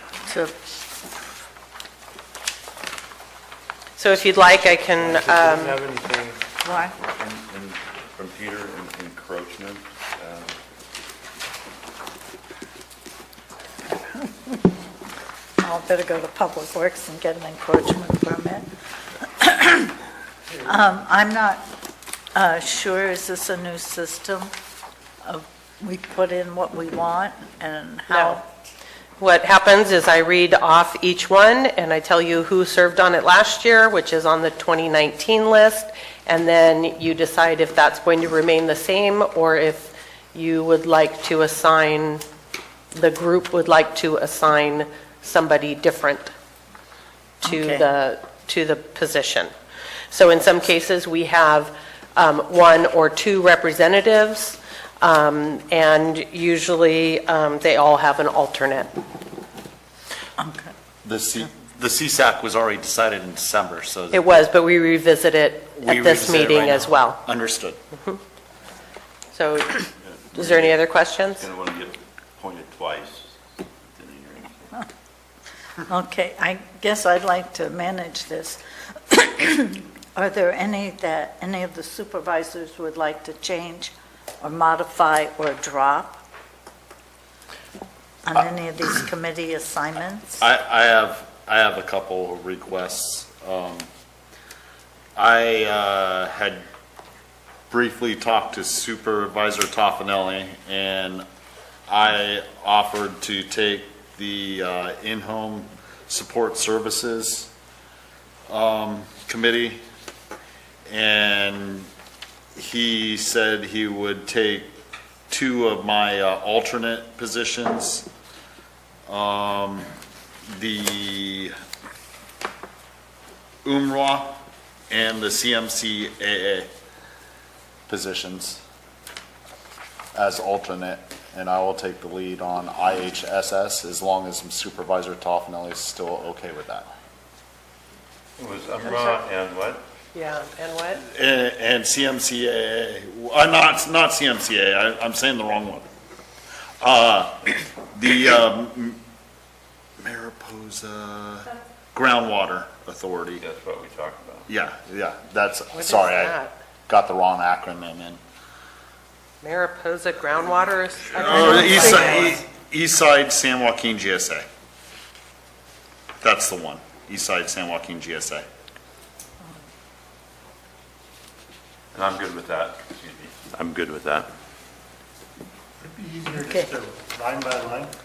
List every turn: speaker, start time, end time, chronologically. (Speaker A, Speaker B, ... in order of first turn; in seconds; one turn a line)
Speaker A: 0.3-0.5
Speaker B: 4.0-5.8
Speaker C: 5.0-6.4
Speaker A: 6.6-6.9
Speaker D: 7.0-10.5
Speaker A: 13.9-14.6
Speaker A: 15.6-18.7
Speaker A: 19.2-19.9
Speaker A: 20.6-21.6
Speaker A: 22.3-24.5
Speaker A: 25.2-28.4
Speaker B: 28.1-28.4
Speaker B: 29.2-42.2
Speaker B: 42.9-46.3
Speaker A: 47.4-47.9
Speaker B: 47.4-49.5
Speaker B: 50.1-58.9
Speaker A: 60.4-60.7
Speaker E: 61.0-64.2
Speaker B: 64.1-67.2
Speaker E: 65.7-67.8
Speaker B: 69.3-71.4
Speaker D: 70.0-70.8
Speaker D: 71.4-73.3
Speaker D: 73.8-74.7
Speaker A: 75.9-86.2
Speaker A: 88.2-90.4
Speaker E: 90.4-93.9
Speaker E: 95.2-96.6
Speaker E: 97.7-101.2
Speaker E: 101.9-107.5
Speaker E: 108.5-109.8
Speaker E: 110.9-111.9
Speaker E: 112.5-114.8
Speaker E: 115.3-118.1
Speaker E: 119.1-119.9
Speaker E: 120.5-121.5
Speaker E: 123.6-124.3
Speaker E: 124.9-126.7
Speaker E: 127.9-128.6
Speaker E: 130.1-136.9
Speaker D: 138.4-139.8
Speaker B: 138.8-139.2
Speaker B: 140.1-141.0
Speaker E: 141.0-145.9
Speaker E: 146.8-149.0
Speaker E: 150.0-153.4
Speaker D: 153.4-154.5
Speaker E: 154.5-156.3
Speaker B: 155.7-156.5
Speaker E: 156.9-158.2
Speaker B: 159.4-162.4
Speaker E: 161.1-164.5
Speaker E: 166.2-168.4
Speaker D: 171.9-174.3
Speaker C: 176.0-177.9